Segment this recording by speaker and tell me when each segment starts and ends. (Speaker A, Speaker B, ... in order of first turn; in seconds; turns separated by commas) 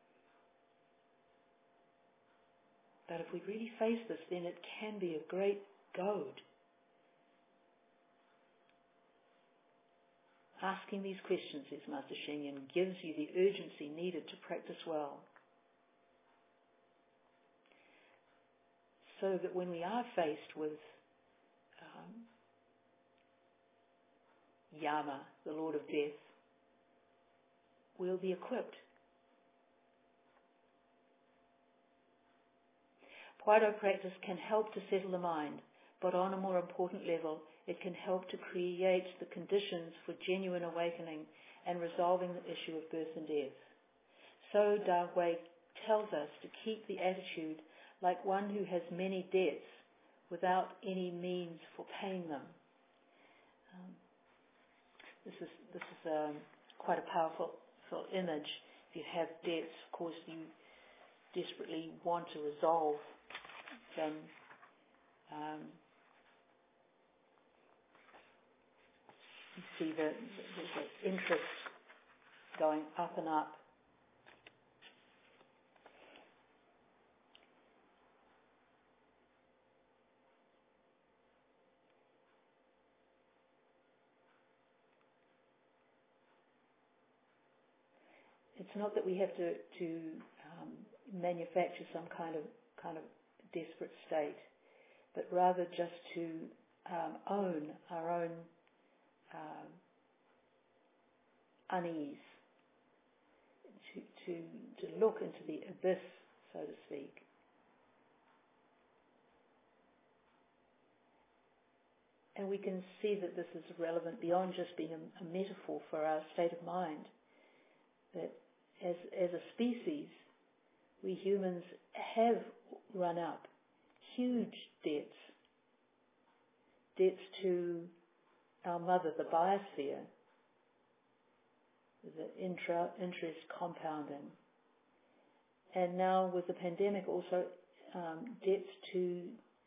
Speaker A: 3.1-6.4, Speaker A: 10.6-15.3, Speaker A: 19.0-21.0, Speaker A: 21.8-22.3, Speaker A: 24.7-26.3, Speaker A: 27.9-28.8, Speaker A: 33.4-43.6, Speaker A: 44.4-52.6, Speaker A: 53.7-54.0, Speaker A: 55.2-60.5, Speaker A: 61.3-63.2, Speaker A: 63.9-64.3, Speaker A: 65.3-65.8, Speaker A: 69.6-71.7, Speaker A: 72.5-73.6, Speaker A: 88.5-94.5, Speaker A: 95.1-98.5, Speaker A: 99.3-99.8, Speaker A: 101.7-102.4, Speaker A: 103.7-107.3, Speaker A: 112.3-117.1, Speaker A: 118.1-120.3, Speaker A: 121.0-123.5, Speaker A: 124.0-125.3, Speaker A: 127.0-127.9, Speaker A: 128.6-130.1, Speaker A: 132.0-134.4, Speaker A: 135.7-139.4